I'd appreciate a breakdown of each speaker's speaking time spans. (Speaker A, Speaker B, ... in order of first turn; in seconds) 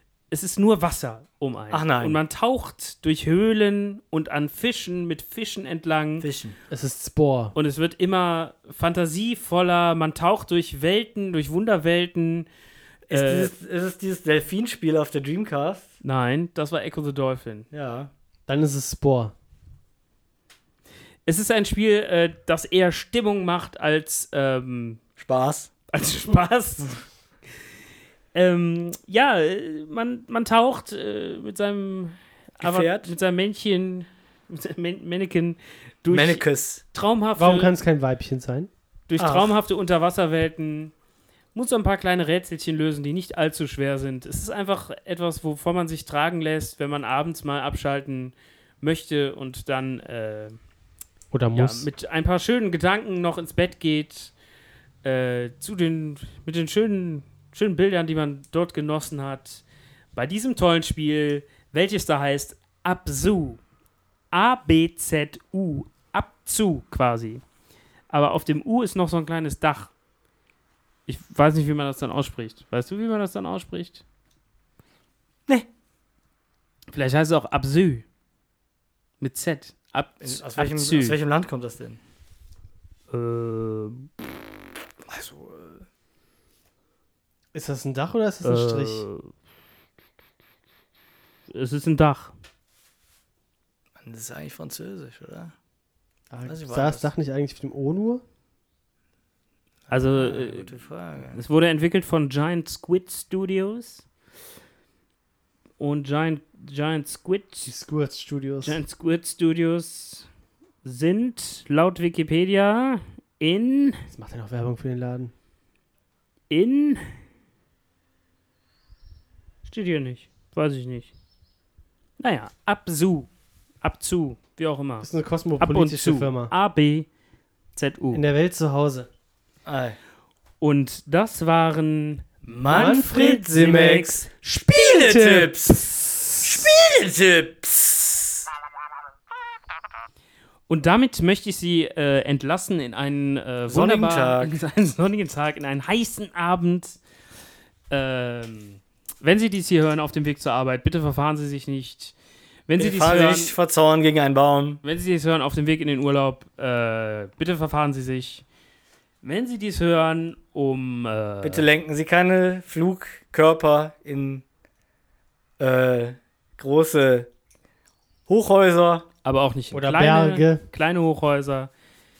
Speaker A: 0.3-6.3, 7.5-12.5, 13.1-13.5, 16.0-17.7, 21.3-25.0, 25.9-27.0, 28.3-37.7, 39.1-40.9, 41.5-50.6, 51.5-54.3, 55.0-59.6, 60.1-63.6, 64.3-67.4, 68.1-69.9, 71.1-74.0, 76.9-78.0, 79.2-81.2, 83.1-84.1, 88.4-89.3, 91.5-92.3, 99.9-100.8, 101.3-104.0, 105.8-107.7, 108.6-110.3, 110.8-114.1, 116.5-117.1, 119.7-121.1, 122.2-123.3, 123.8-125.1, 125.6-127.1, 127.8-128.2, 130.6-132.3, 132.8-134.2, 140.7-147.0, 147.9-152.2, 152.7-153.6, 154.8-158.4, 159.2-161.7, 169.2-171.7
Speaker B: 1.7-2.2, 6.2-6.6, 13.1-15.9, 17.7-18.1, 25.2-25.7, 32.6-33.1, 36.1-36.8, 39.2-39.5, 80.2-82.0, 85.1-85.8, 94.0-95.5, 96.5-97.1, 99.9-101.4, 129.7-130.0, 132.4-135.8, 136.4-138.4, 143.7-144.6, 152.8-154.8, 161.4-164.4, 165.6-167.3, 168.3-169.1
Speaker C: 6.7-7.5, 18.5-19.4, 37.4-38.7, 51.3-51.9, 87.5-89.0, 96.3-98.2, 107.7-108.8, 114.1-115.3, 125.0-126.5, 128.1-129.1, 132.7-136.7, 169.7-170.6